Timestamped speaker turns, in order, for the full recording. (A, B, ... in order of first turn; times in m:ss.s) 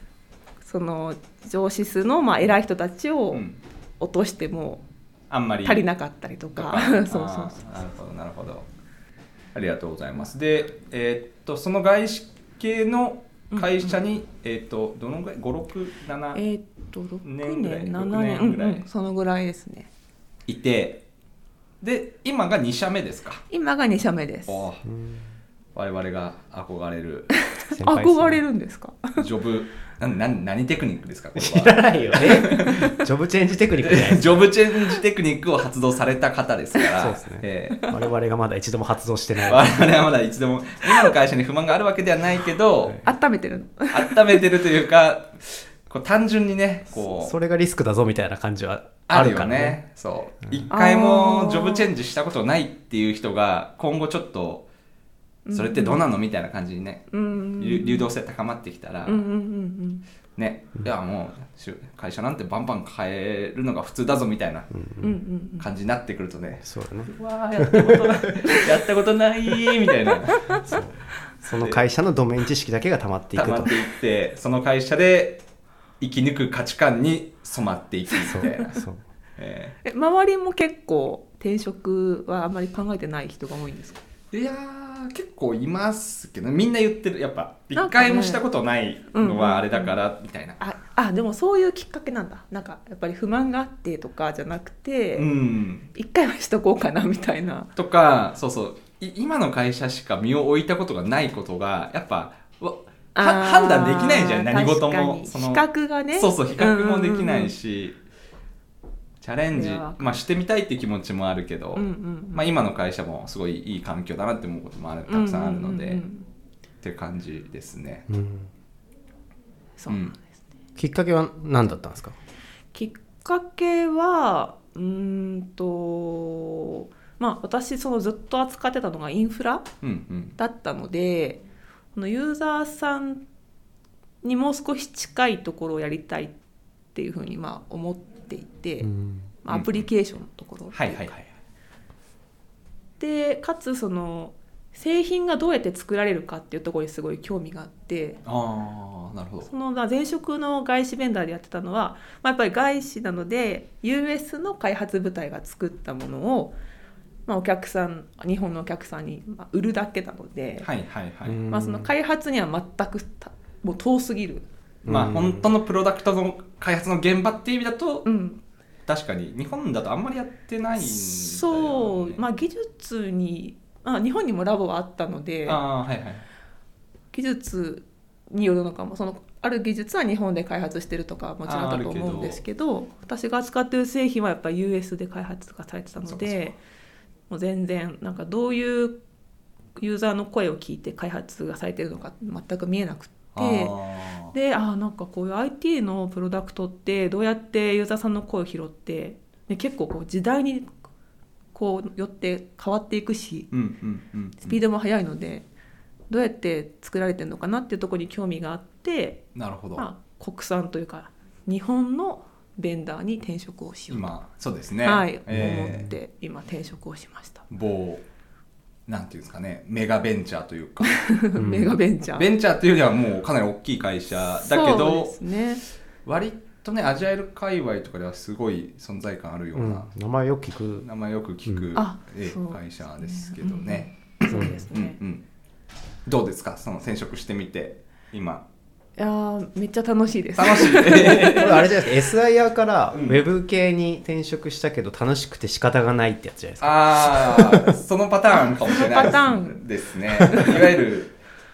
0:00.6-0:03.4 A
0:03.3-0:03.6 B
0:04.0-0:04.8 A
0:05.3-0:05.8 B
0:05.6-0:07.6 A
0:06.6-0:08.7 B
0:09.5-0:16.4 B
0:13.5-0:14.0 A
0:16.3-0:19.9 A
0:17.2-0:18.9 B
0:20.5-0:21.0 B
0:21.8-0:23.4 B
0:23.5-0:24.6 A
0:24.5-0:24.8 B
0:24.8-0:25.3 C
0:25.8-0:27.3 B
0:27.7-0:29.2 A
0:27.7-0:28.4 C
0:29.2-0:32.9 B
0:31.4-0:34.5 C
0:33.8-0:37.9 B
0:37.0-0:39.9 C
0:39.4-0:43.1 B
0:43.0-0:44.5 A
0:43.9-0:47.3 B
0:47.0-0:49.8 C
0:49.1-0:54.7 B
0:50.7-0:51.9 A
0:55.5-0:56.0 A
0:55.5-0:59.2 B
0:57.1-0:58.1 A
0:59.1-1:00.0 A
1:00.4-1:04.7 B
1:04.7-1:05.1 C
1:05.0-1:05.7 A
1:05.6-1:10.5 B
1:06.6-1:08.1 C
1:10.5-1:13.8 C
1:11.6-1:11.8 B
1:13.4-1:15.4 B
1:16.0-1:18.8 B
1:18.3-1:19.0 C
1:19.4-1:19.8 B
1:19.8-1:24.0 A
1:24.3-1:30.6 B
1:27.8-1:28.4 A
1:29.1-1:30.0 A
1:30.6-1:35.3 A
1:35.2-1:35.9 B
1:35.9-1:37.7 A
1:37.8-1:48.0 B
1:43.2-1:47.5 A
1:49.2-1:56.0 B
1:49.5-1:50.1 A
1:51.8-1:52.5 A
1:55.1-1:56.3 A
1:56.8-1:58.1 B
1:58.1-1:58.5 C
1:59.8-2:00.2 A
1:59.9-2:00.2 B
2:00.8-2:02.2 C
2:02.7-2:09.7 A
2:09.8-2:10.4 B
2:10.4-2:11.4 A
2:12.0-2:13.2 A
2:14.2-2:16.3 A
2:17.0-2:18.9 A
2:18.8-2:19.3 C
2:19.4-2:21.1 A
2:19.5-2:19.9 B
2:20.7-2:21.3 B
2:23.0-2:28.2 A
2:28.2-2:29.5 B
2:29.5-2:36.6 A
2:37.3-2:40.7 A
2:40.6-2:41.4 B
2:41.3-2:41.9 C
2:41.5-2:44.5 A
2:44.8-2:45.5 C
2:44.9-2:48.1 B
2:48.0-2:48.4 A
2:48.9-2:52.2 B
2:50.8-2:55.6 A
2:55.5-2:56.3 B
2:57.1-3:06.6 A
3:01.4-3:02.4 B
3:06.0-3:06.6 B
3:07.3-3:09.0 A
3:09.8-3:13.8 A
3:13.4-3:14.4 B
3:14.3-3:20.7 A
3:21.5-3:23.5 A
3:23.5-3:24.6 B
3:24.4-3:25.5 A
3:26.1-3:34.1 A
3:29.4-3:29.9 B
3:33.9-3:35.9 B
3:34.8-3:37.5 A
3:35.3-3:35.9 C
3:37.5-3:38.0 B
3:38.9-3:41.0 B
3:40.8-3:42.3 A
3:41.4-3:41.8 C
3:42.2-3:45.2 B
3:44.3-3:45.6 A
3:46.0-3:49.9 B
3:49.6-3:50.9 C
3:50.8-3:55.2 B
3:51.8-3:55.0 A
3:54.3-3:54.7 C
3:56.1-3:58.4 B
3:59.0-4:01.7 A
4:00.4-4:01.6 B
4:01.1-4:07.8 C
4:02.9-4:03.2 B
4:06.6-4:11.2 B
4:08.6-4:09.6 A
4:10.3-4:10.6 A